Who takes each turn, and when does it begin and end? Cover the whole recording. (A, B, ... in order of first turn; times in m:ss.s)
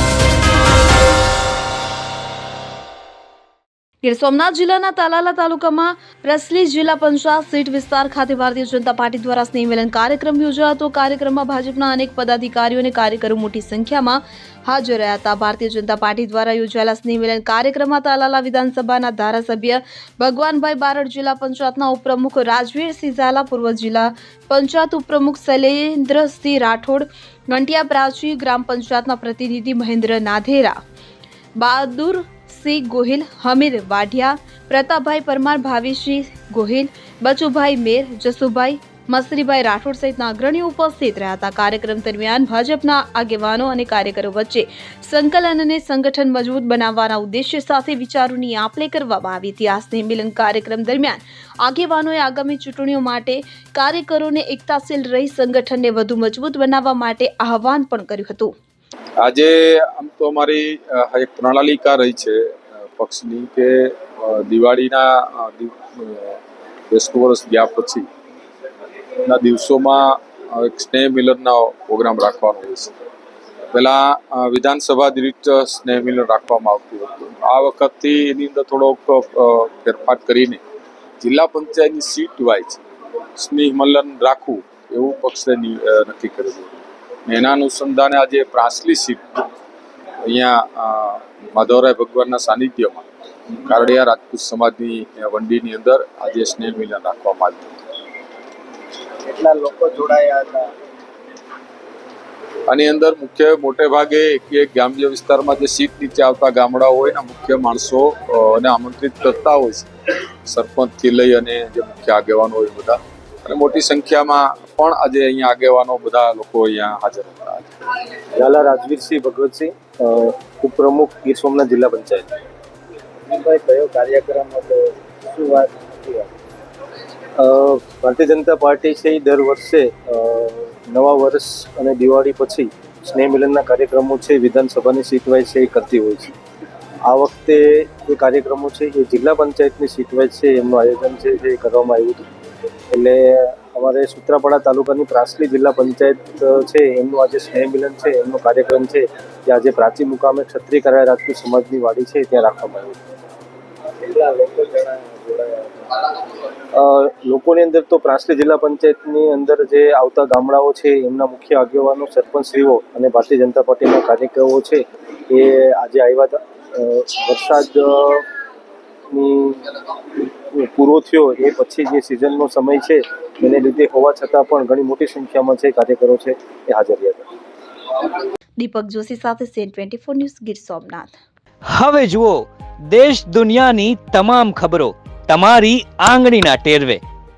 0:04.0-0:30.8 A
0:31.6-0:58.5 A
0:59.2-1:08.1 B
1:09.2-1:12.9 B
1:13.7-1:20.6 B
1:21.2-1:22.8 B
1:23.4-1:29.5 B
1:30.3-1:37.7 B
1:39.3-1:40.7 C
1:42.7-1:49.9 B
1:50.4-1:57.7 B
1:58.4-2:02.3 D
2:03.3-2:06.3 C
2:07.4-2:16.3 D
2:17.1-2:22.3 D
2:22.9-2:33.0 D
2:34.0-2:35.8 C
2:36.7-2:48.2 D
2:49.1-2:57.3 D
2:58.6-3:01.2 A
3:01.7-3:07.0 E